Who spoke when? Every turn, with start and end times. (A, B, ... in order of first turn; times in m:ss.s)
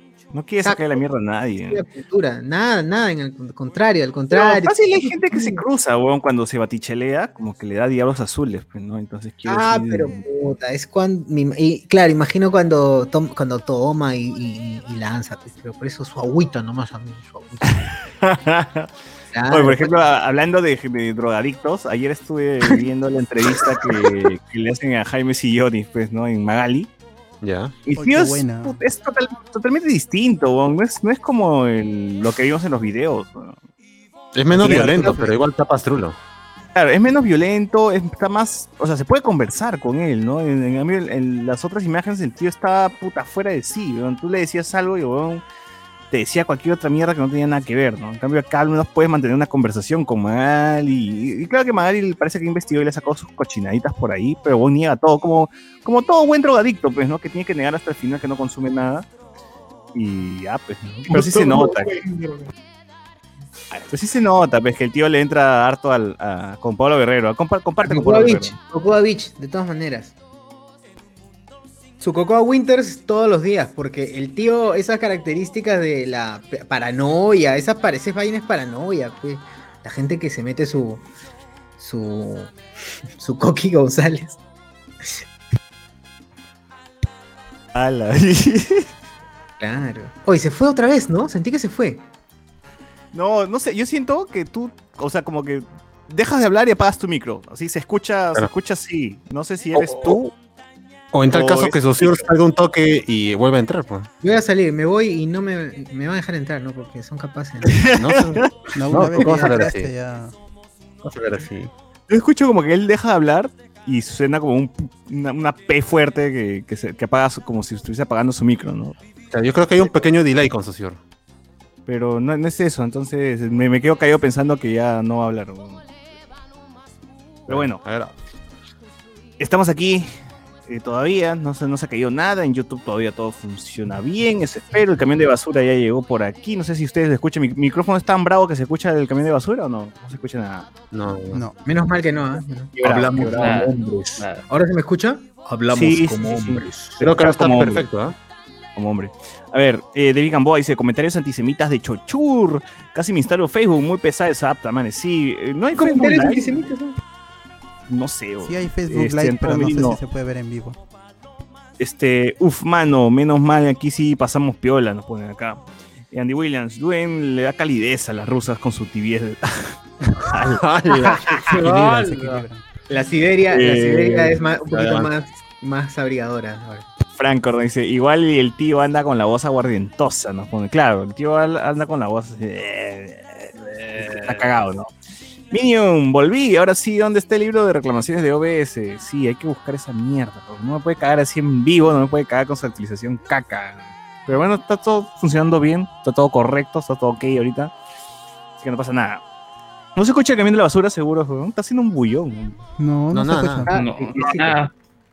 0:00.3-0:01.8 A
0:00.6-0:01.0 B
0:01.7-0:05.6 B
0:04.3-0:10.2 A
0:09.5-0:17.9 B
0:17.6-0:18.9 A
0:19.3-0:19.9 B
0:19.5-0:26.9 A
0:23.6-0:23.9 B
0:27.4-0:27.7 C
0:27.9-0:33.6 A
0:28.0-0:28.8 D
0:34.3-0:36.2 C
0:34.5-0:35.4 D
0:34.6-0:35.2 A
0:36.8-0:45.4 A
0:46.1-0:59.1 A
0:59.9-1:02.0 A
1:01.1-1:02.5 B
1:03.9-1:08.6 A
1:07.8-1:10.1 B
1:12.0-1:21.0 B
1:21.8-1:22.5 B
1:23.2-1:24.4 B
1:27.7-1:28.9 A
1:29.6-1:32.0 B
1:33.1-1:40.3 A
1:39.8-1:40.2 C
1:41.1-1:44.1 C
1:41.3-1:42.3 A
1:44.2-1:47.8 B
1:47.7-1:48.5 A
1:48.0-1:49.9 C
1:48.7-1:50.3 D
1:49.2-1:49.6 B
1:51.0-1:51.7 C
1:52.1-1:59.0 A
1:59.3-2:01.0 C
2:01.9-2:05.8 A
2:07.5-2:07.8 A
2:07.5-2:08.1 C
2:09.4-2:10.1 A
2:10.7-2:20.7 A
2:20.9-2:21.4 C
2:21.3-2:21.6 D
2:21.6-2:22.7 B
2:22.7-2:23.8 A
2:22.8-2:24.2 C
2:23.3-2:24.4 E
2:24.5-2:26.9 B
2:25.7-2:27.8 A
2:27.0-2:28.2 C
2:28.8-2:36.5 A
2:35.8-2:37.0 B
2:37.9-2:40.0 A
2:38.4-2:40.8 D
2:41.8-2:50.6 A
2:50.2-2:52.4 C
2:50.9-2:51.6 B
2:51.5-2:52.6 D
2:52.9-2:56.9 B
2:53.5-2:54.4 A
2:54.7-2:55.1 C
2:57.2-3:04.9 A
3:05.5-3:17.7 A
3:18.6-3:19.2 A
3:20.0-3:22.6 A
3:22.8-3:23.8 D
3:23.1-3:23.7 C
3:23.7-3:24.3 B
3:23.7-3:24.7 E